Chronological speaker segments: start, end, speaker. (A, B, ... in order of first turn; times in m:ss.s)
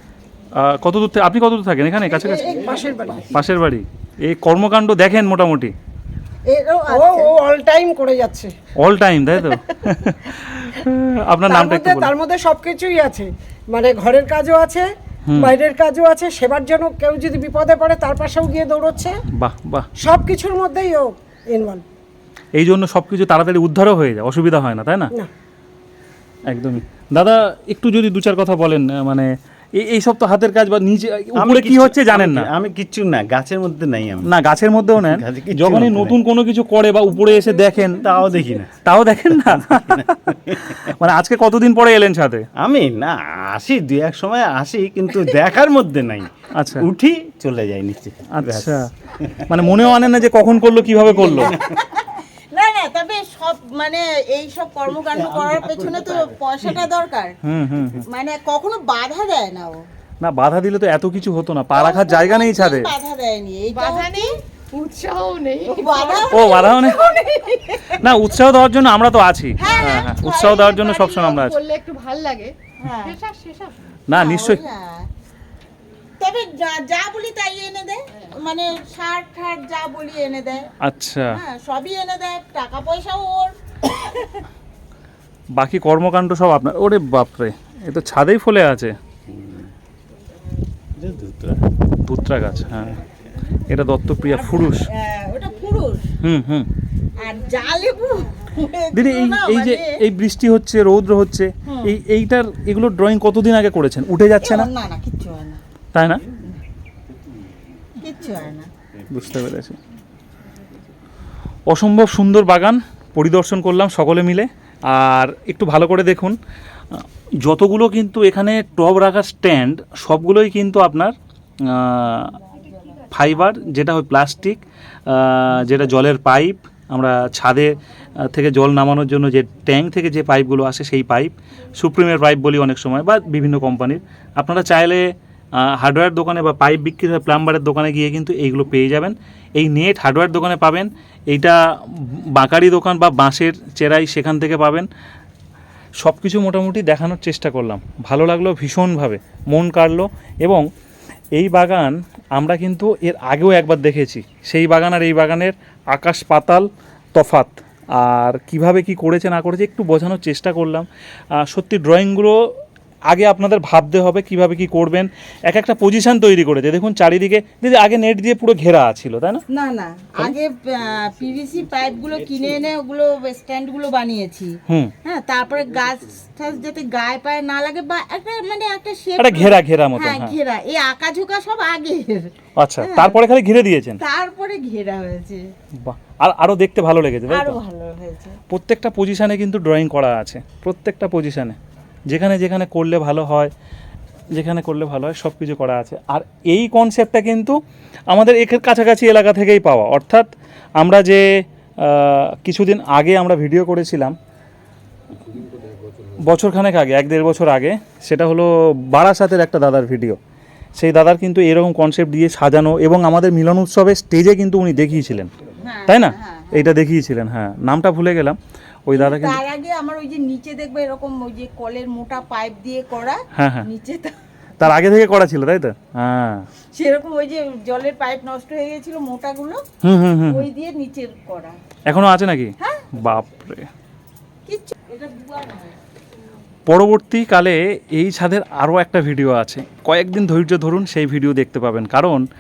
0:00.5-0:02.7 A
0:02.3-0:02.7 B
0:02.4-0:03.2 C
0:03.3-0:05.7 A
0:06.4-0:08.5 C
0:06.9-0:07.3 D
0:08.8-0:12.1 A
0:11.5-0:19.2 C
0:15.3-0:15.6 A
0:19.3-0:19.8 A
0:20.0-0:21.8 C
0:22.6-0:25.1 A
0:26.5-0:32.5 A
0:31.3-0:34.3 B
0:34.2-0:38.1 A
0:34.9-0:36.2 B
0:37.9-0:38.7 B
0:38.8-0:42.4 A
0:39.5-0:40.9 B
0:42.6-0:49.4 B
0:46.5-0:46.9 A
0:48.3-0:48.9 A
0:49.5-0:51.5 A
0:51.0-0:51.5 B
0:51.2-0:57.3 D
0:57.4-0:58.0 A
0:58.0-0:59.8 D
1:00.2-1:02.9 A
1:01.7-1:04.3 D
1:03.7-1:07.5 E
1:05.6-1:08.2 D
1:06.3-1:07.0 A
1:07.9-1:11.6 A
1:09.6-1:11.0 D
1:09.6-1:13.8 E
1:12.8-1:13.2 D
1:14.1-1:14.6 A
1:14.1-1:15.1 D
1:16.2-1:20.6 D
1:20.8-1:21.4 A
1:21.3-1:24.4 D
1:25.6-1:29.0 A
1:29.3-1:29.7 B
1:31.0-1:31.6 B
1:32.0-1:33.0 A
1:33.7-1:34.9 A
1:34.3-1:36.1 D
1:36.2-1:36.7 A
1:37.2-1:39.9 D
1:38.9-1:44.7 A
1:41.7-1:42.0 D
1:44.4-1:45.6 D
1:45.9-1:46.2 A
1:48.0-1:48.7 D
1:49.1-1:49.8 A
1:51.7-1:56.4 A
1:57.0-2:01.1 A
2:01.6-2:02.3 A
2:03.1-2:21.6 A
2:22.2-2:24.9 A
2:26.0-2:30.6 A
2:31.4-2:42.5 A
2:43.1-2:49.4 A
2:49.5-3:02.3 D
2:54.7-2:54.9 A
2:59.2-3:00.3 A
3:02.6-3:04.0 A
3:02.8-3:03.2 D
3:04.0-3:05.4 D
3:05.8-3:07.6 A
3:07.3-3:08.4 D
3:08.5-3:11.6 A
3:12.1-3:13.5 A
3:14.3-3:17.6 A
3:18.1-3:21.2 A
3:21.8-3:24.1 A
3:26.2-3:30.2 A
3:30.8-3:35.3 A
3:35.6-3:36.7 D
3:35.9-3:39.4 A
3:38.9-3:44.1 D
3:43.4-3:43.7 A
3:44.6-3:46.4 A
3:46.7-3:49.6 D
3:49.8-3:50.4 A
3:50.2-3:51.6 D
3:51.9-3:53.7 A
3:52.6-3:52.9 D
3:54.5-3:55.7 D
3:56.7-4:02.2 A